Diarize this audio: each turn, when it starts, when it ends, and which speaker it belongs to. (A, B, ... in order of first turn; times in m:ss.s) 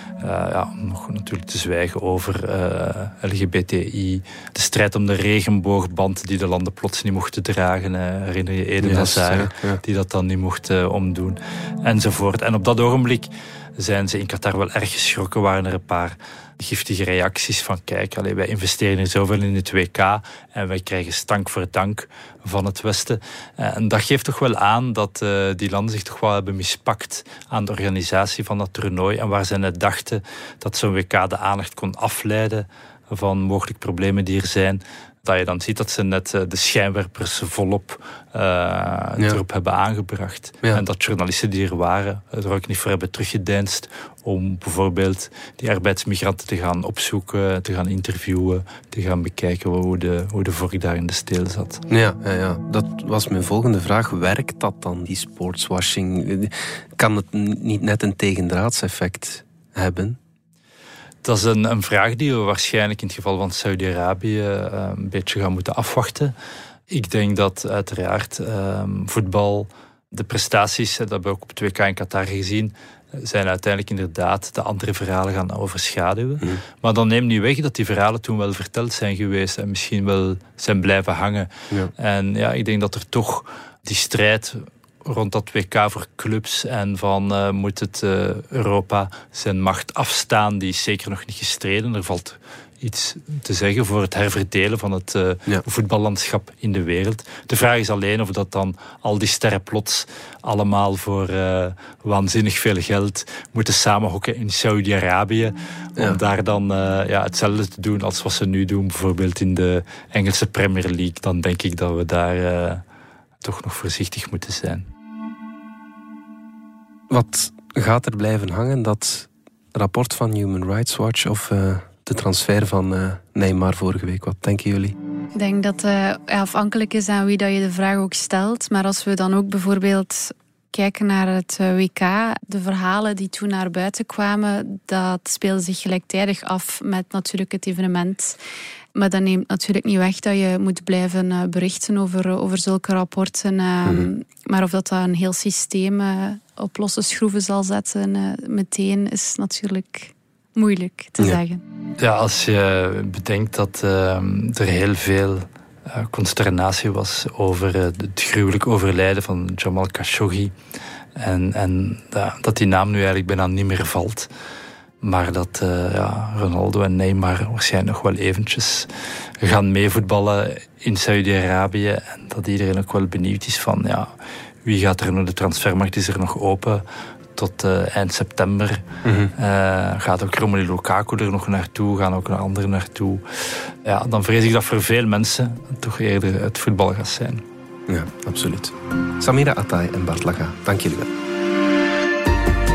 0:00.2-0:51.8 A
0:08.8-0:09.8 B
0:51.9-1:00.2 B
1:01.2-1:06.3 A
1:06.9-1:52.8 A
1:53.4-1:54.9 A
1:57.1-2:05.0 B
2:05.4-2:18.4 C
2:19.0-2:31.6 C
2:32.0-2:40.5 A
2:41.2-2:44.3 A
2:45.0-2:48.9 A
2:49.4-2:54.1 A
2:54.6-2:56.8 A
2:57.4-2:58.8 A
2:59.0-2:59.3 B
2:59.4-3:07.4 A
3:07.9-3:11.1 B